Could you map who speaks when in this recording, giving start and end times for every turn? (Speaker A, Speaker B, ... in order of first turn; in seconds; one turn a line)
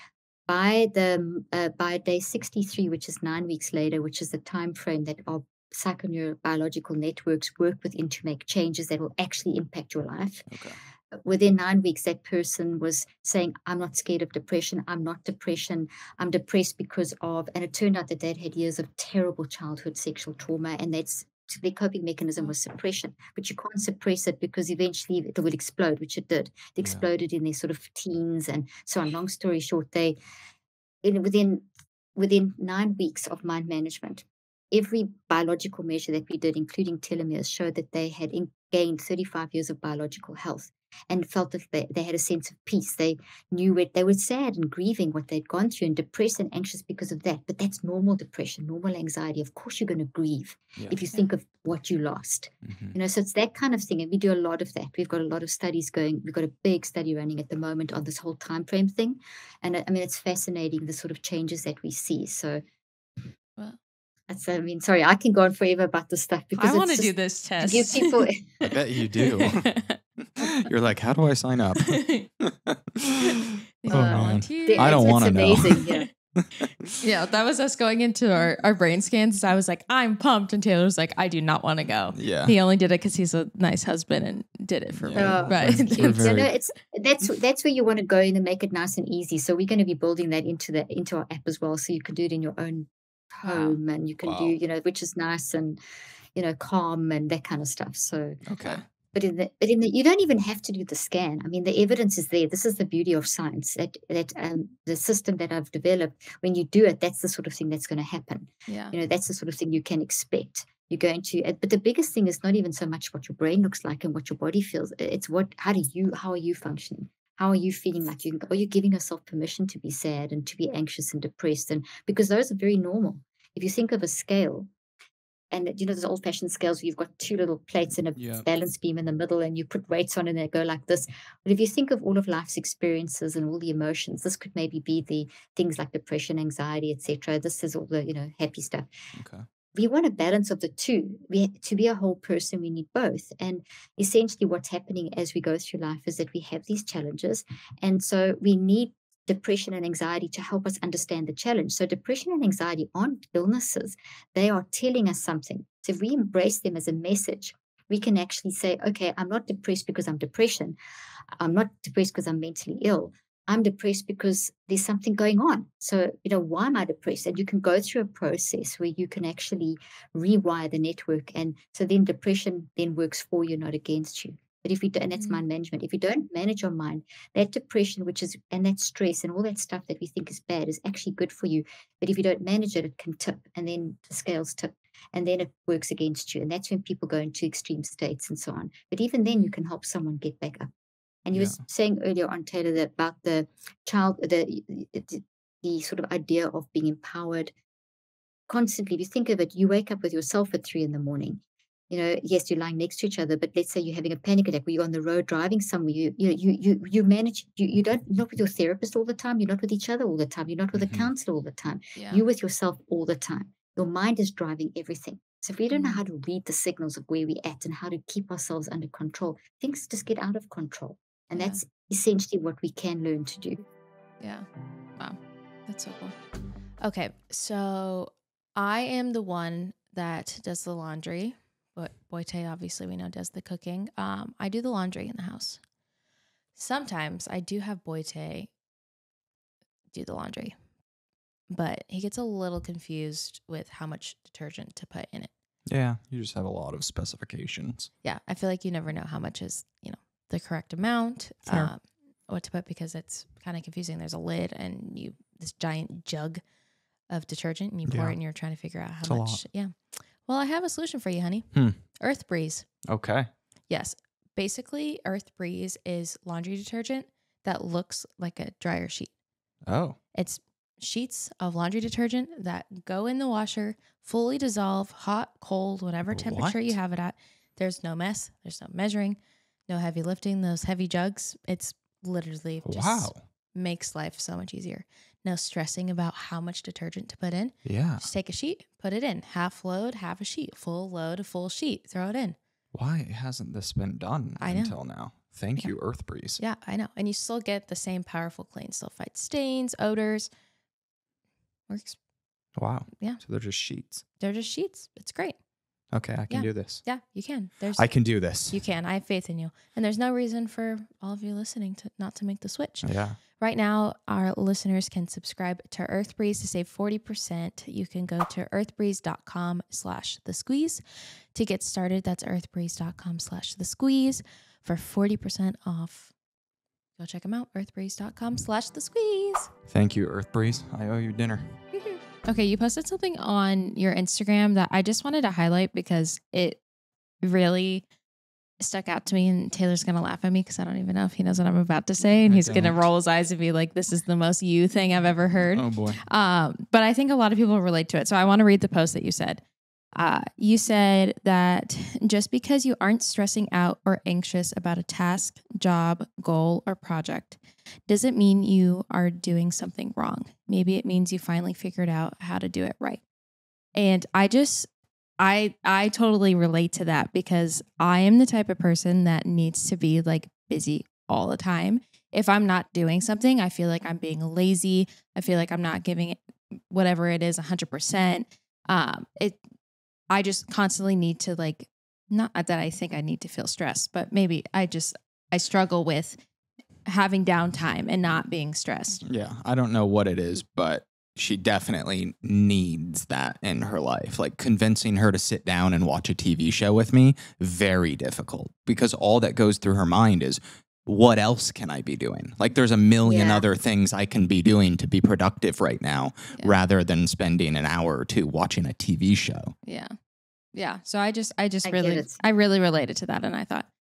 Speaker A: 0.5-10.5
Speaker B: 10.5-10.8
Speaker A: 11.1-30.2
Speaker A: 31.0-62.6
Speaker B: 52.6-53.0
Speaker A: 64.3-68.5
Speaker C: 66.6-70.7
Speaker B: 68.6-69.7
Speaker B: 70.2-75.8
Speaker C: 71.8-72.3
Speaker C: 73.8-76.0
Speaker A: 73.9-76.1
Speaker B: 76.4-77.0
Speaker C: 77.0-86.2
Speaker B: 82.2-82.6
Speaker B: 85.0-86.5
Speaker A: 85.2-95.8
Speaker C: 93.4-93.8
Speaker B: 94.2-94.6
Speaker A: 96.3-98.4
Speaker B: 98.5-98.9
Speaker A: 99.1-124.7
Speaker C: 108.7-109.0
Speaker A: 125.5-138.9
Speaker B: 128.2-128.5
Speaker B: 139.2-139.5
Speaker A: 139.7-160.8
Speaker A: 161.4-190.7
Speaker C: 175.2-175.4
Speaker C: 189.3-189.5
Speaker A: 191.2-197.5
Speaker B: 191.3-191.6
Speaker A: 198.5-223.7
Speaker B: 210.7-211.1
Speaker C: 212.0-212.2
Speaker C: 215.7-216.0
Speaker C: 224.2-224.5
Speaker C: 225.0-226.2
Speaker C: 226.8-235.6
Speaker C: 236.6-238.5
Speaker C: 239.9-240.6
Speaker C: 241.5-245.3
Speaker B: 245.7-247.9
Speaker C: 248.0-256.4
Speaker B: 251.5-251.7
Speaker C: 257.1-262.7
Speaker B: 257.9-258.2
Speaker B: 259.0-259.4
Speaker B: 261.5-261.8
Speaker B: 262.9-263.3
Speaker C: 263.7-269.1
Speaker B: 269.7-270.0
Speaker C: 270.1-292.4
Speaker B: 276.1-276.8
Speaker B: 282.6-283.2
Speaker B: 287.6-288.1
Speaker B: 292.7-296.4
Speaker C: 294.4-295.0
Speaker C: 295.6-300.3
Speaker C: 301.7-302.0
Speaker B: 302.6-304.0
Speaker C: 304.2-305.4
Speaker B: 305.9-306.9
Speaker C: 306.3-320.8
Speaker B: 307.8-308.6
Speaker B: 312.8-313.2
Speaker C: 321.3-326.1
Speaker C: 327.0-329.5
Speaker B: 329.7-331.6
Speaker C: 331.8-336.6
Speaker C: 337.2-337.8
Speaker C: 338.6-363.0
Speaker B: 342.3-342.8
Speaker B: 345.5-346.0
Speaker C: 363.8-364.7
Speaker C: 365.2-379.4
Speaker C: 380.1-386.2
Speaker C: 386.9-389.0
Speaker B: 389.0-409.6
Speaker A: 403.0-403.5
Speaker C: 409.7-409.9
Speaker C: 410.5-413.7
Speaker A: 411.6-412.2